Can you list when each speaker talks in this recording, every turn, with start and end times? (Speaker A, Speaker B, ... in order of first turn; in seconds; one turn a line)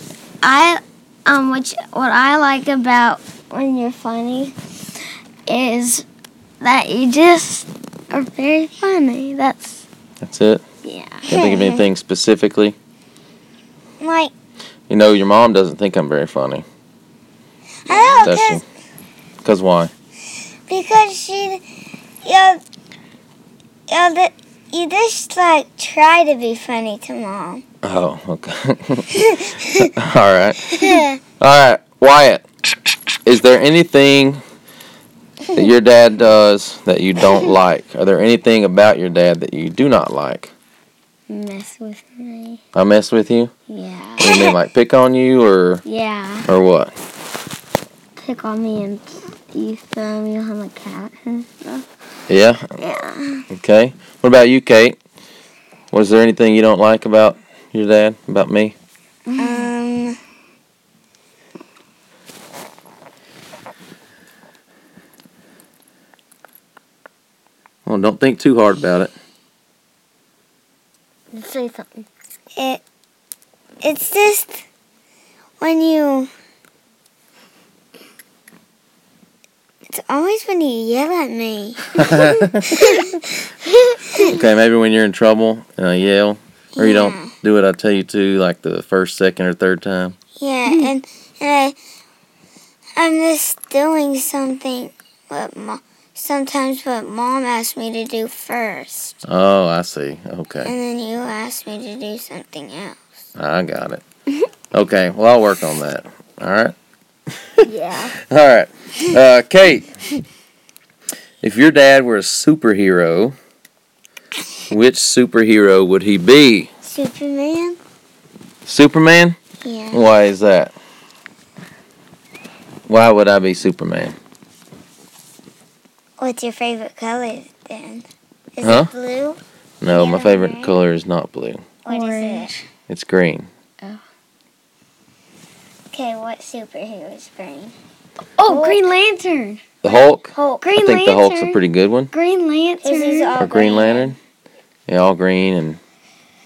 Speaker A: 0.4-4.5
Speaker A: 5.5-6.0
Speaker A: 6.6-9.8
Speaker B: 10.2-10.6
Speaker A: 10.8-11.3
Speaker B: 11.2-12.8
Speaker C: 11.3-11.8
Speaker C: 14.0-14.3
Speaker B: 14.9-16.6
Speaker C: 17.9-18.6
Speaker A: 17.9-18.2
Speaker B: 18.2-18.6
Speaker B: 19.4-19.9
Speaker C: 20.7-21.6
Speaker C: 22.2-22.6
Speaker C: 23.9-27.6
Speaker B: 27.8-32.4
Speaker C: 29.2-29.8
Speaker C: 30.7-31.2
Speaker B: 33.2-34.4
Speaker B: 35.5-40.5
Speaker A: 41.3-42.6
Speaker B: 42.7-43.5
Speaker A: 43.7-44.5
Speaker B: 44.2-45.8
Speaker A: 45.8-46.5
Speaker B: 46.5-46.9
Speaker A: 48.2-51.8
Speaker B: 52.3-52.6
Speaker A: 52.8-53.4
Speaker B: 53.5-55.0
Speaker B: 55.9-58.8
Speaker A: 59.2-59.7
Speaker C: 59.4-60.2
Speaker B: 67.8-69.1
Speaker A: 71.3-72.1
Speaker C: 72.5-72.8
Speaker C: 73.8-74.6
Speaker C: 75.6-76.3
Speaker C: 79.9-83.5
Speaker B: 82.0-82.7
Speaker B: 84.2-90.2
Speaker C: 86.8-87.3
Speaker C: 90.4-91.8
Speaker C: 93.0-99.2
Speaker B: 99.2-100.7
Speaker C: 100.6-103.0
Speaker B: 103.3-104.0
Speaker B: 104.7-106.7
Speaker A: 107.6-108.1
Speaker B: 108.2-109.9
Speaker B: 111.4-113.3
Speaker B: 114.7-116.7
Speaker C: 116.8-117.8
Speaker B: 118.7-119.4
Speaker C: 119.6-120.1
Speaker B: 119.9-120.7
Speaker B: 122.9-124.1
Speaker C: 126.2-128.0
Speaker C: 128.6-129.4
Speaker B: 128.6-128.9
Speaker B: 129.8-131.6
Speaker C: 129.9-130.8
Speaker C: 131.8-132.5
Speaker A: 131.9-132.6
Speaker B: 132.9-133.5
Speaker C: 135.9-137.7
Speaker A: 138.4-139.6
Speaker C: 138.5-138.8
Speaker B: 139.8-142.1
Speaker C: 139.9-140.7
Speaker A: 140.6-141.6
Speaker A: 142.1-143.3
Speaker C: 142.8-144.1
Speaker B: 143.4-144.2
Speaker B: 144.9-145.8